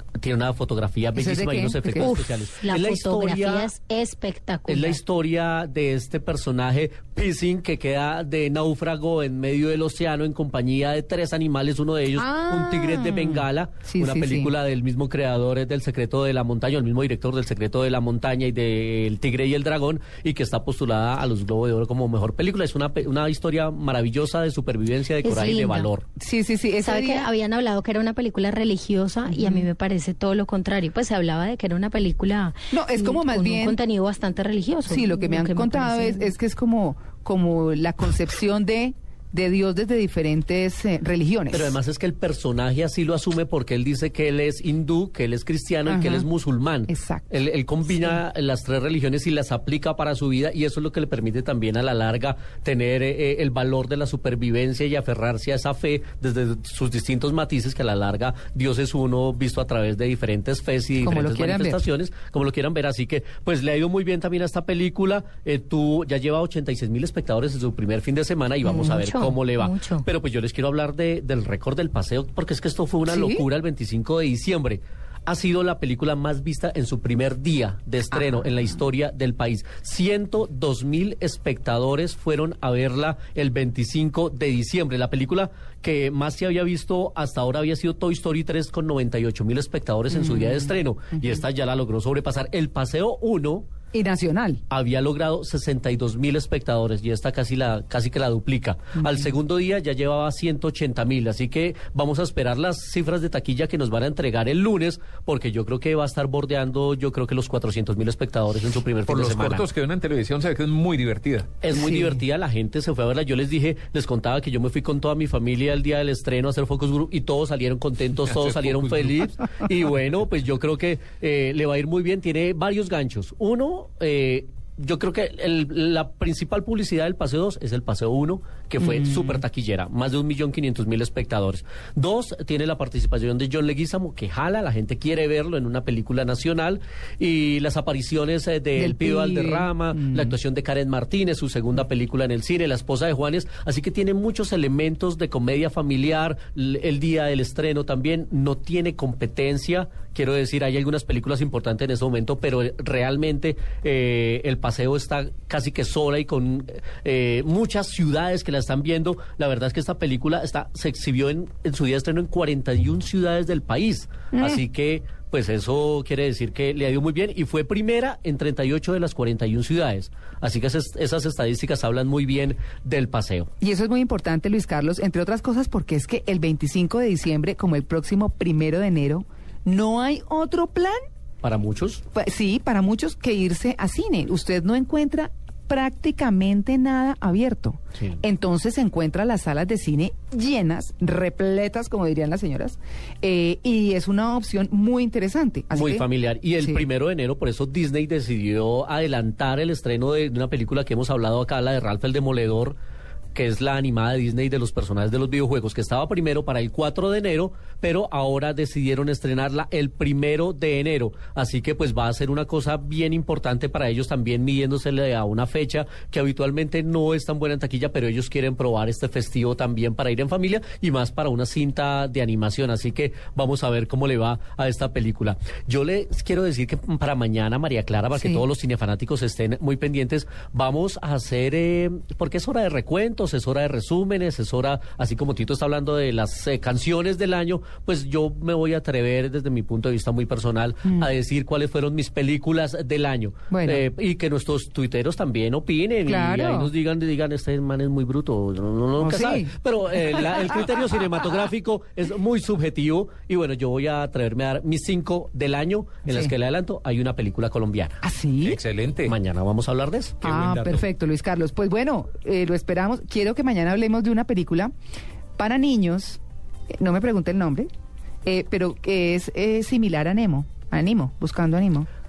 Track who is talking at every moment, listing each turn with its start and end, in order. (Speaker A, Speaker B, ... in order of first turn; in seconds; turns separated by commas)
Speaker A: 0.2-3.7, Speaker B: 1.1-2.1, Speaker C: 2.0-5.0, Speaker A: 4.7-26.1, Speaker B: 12.2-14.5, Speaker C: 25.2-25.9, Speaker B: 26.2-27.2, Speaker C: 26.8-36.3, Speaker B: 29.3-29.7, Speaker B: 32.7-33.8, Speaker B: 34.9-41.8, Speaker A: 41.5-93.7, Speaker B: 45.9-46.3, Speaker B: 46.9-47.3, Speaker B: 61.0-61.8, Speaker C: 68.6-70.1, Speaker B: 73.1-73.4, Speaker B: 78.1-78.7, Speaker B: 90.1-91.4, Speaker B: 93.9-94.6, Speaker A: 94.7-109.7, Speaker D: 109.1-111.5, Speaker A: 111.6-173.5, Speaker B: 111.8-112.2, Speaker D: 118.2-119.1, Speaker B: 128.8-129.4, Speaker B: 138.8-140.3, Speaker B: 164.3-164.6, Speaker B: 173.6-181.0, Speaker A: 181.4-182.0, Speaker B: 182.1-196.1, Speaker A: 195.7-202.8, Speaker A: 203.3-258.0, Speaker B: 228.2-228.4, Speaker B: 243.5-243.9, Speaker B: 246.1-246.7, Speaker B: 249.0-250.7, Speaker B: 256.1-256.3, Speaker B: 258.0-258.6, Speaker D: 258.4-259.1, Speaker A: 259.1-260.3, Speaker D: 260.2-260.9, Speaker B: 260.2-264.7, Speaker B: 265.4-266.2, Speaker B: 266.7-267.7, Speaker B: 268.2-271.9